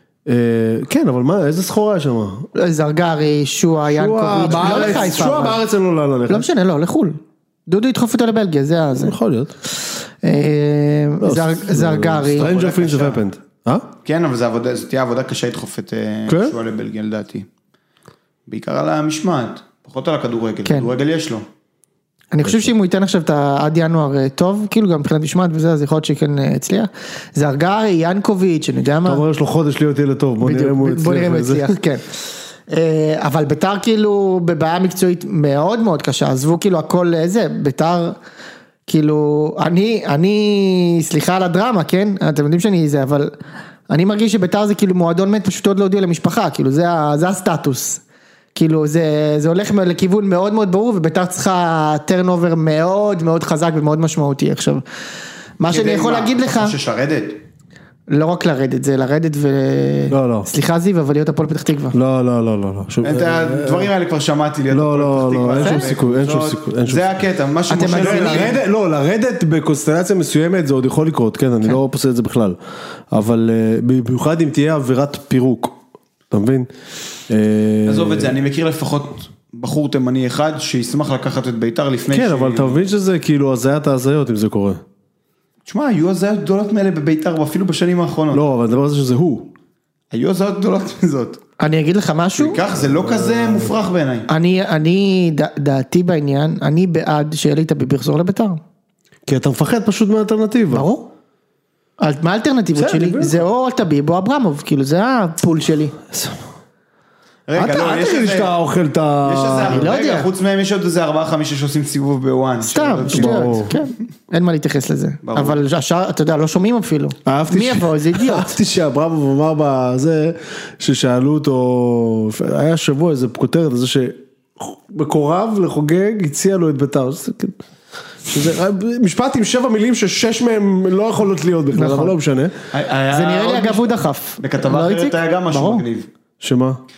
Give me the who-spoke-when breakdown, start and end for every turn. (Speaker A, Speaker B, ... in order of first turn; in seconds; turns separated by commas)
Speaker A: 0.3-2.5, Speaker B: 2.5-5.6, Speaker A: 3.9-6.5, Speaker C: 4.4-5.2, Speaker B: 6.3-9.2, Speaker A: 8.9-9.6, Speaker B: 10.2-12.5, Speaker A: 11.2-13.9, Speaker C: 12.3-13.2, Speaker C: 14.1-17.5, Speaker A: 16.3-16.6, Speaker C: 18.5-21.4, Speaker B: 20.6-20.9, Speaker B: 22.3-29.2, Speaker A: 22.4-22.7, Speaker A: 29.1-31.7, Speaker B: 30.4-32.0, Speaker B: 32.7-38.2, Speaker B: 38.9-43.3, Speaker B: 43.9-48.0, Speaker B: 48.5-54.8, Speaker B: 55.6-56.8, Speaker C: 55.7-57.4, Speaker B: 58.1-62.0, Speaker A: 60.1-60.5, Speaker A: 61.9-63.9, Speaker C: 63.0-68.6, Speaker A: 64.7-67.2, Speaker B: 65.6-65.9, Speaker B: 67.7-68.5, Speaker A: 67.8-72.6, Speaker A: 73.1-75.8, Speaker A: 76.3-76.7, Speaker A: 77.3-78.3, Speaker C: 77.9-82.8, Speaker A: 82.1-84.8, Speaker C: 85.7-88.4, Speaker A: 88.3-89.5, Speaker C: 90.1-91.4, Speaker B: 91.6-92.6, Speaker C: 92.4-94.3, Speaker A: 92.8-93.7, Speaker B: 94.3-98.6, Speaker A: 99.3-100.9, Speaker B: 100.7-101.1, Speaker B: 102.0-106.0, Speaker A: 102.8-103.4, Speaker A: 106.1-106.4, Speaker C: 107.5-108.6, Speaker A: 107.6-109.9, Speaker C: 109.2-113.8, Speaker B: 109.6-110.3, Speaker B: 112.7-118.6, Speaker A: 113.1-113.7, Speaker C: 115.2-115.6, Speaker A: 117.3-127.6, Speaker A: 128.3-132.6, Speaker B: 131.7-132.1, Speaker C: 132.7-136.1, Speaker B: 133.1-135.9, Speaker A: 136.4-136.8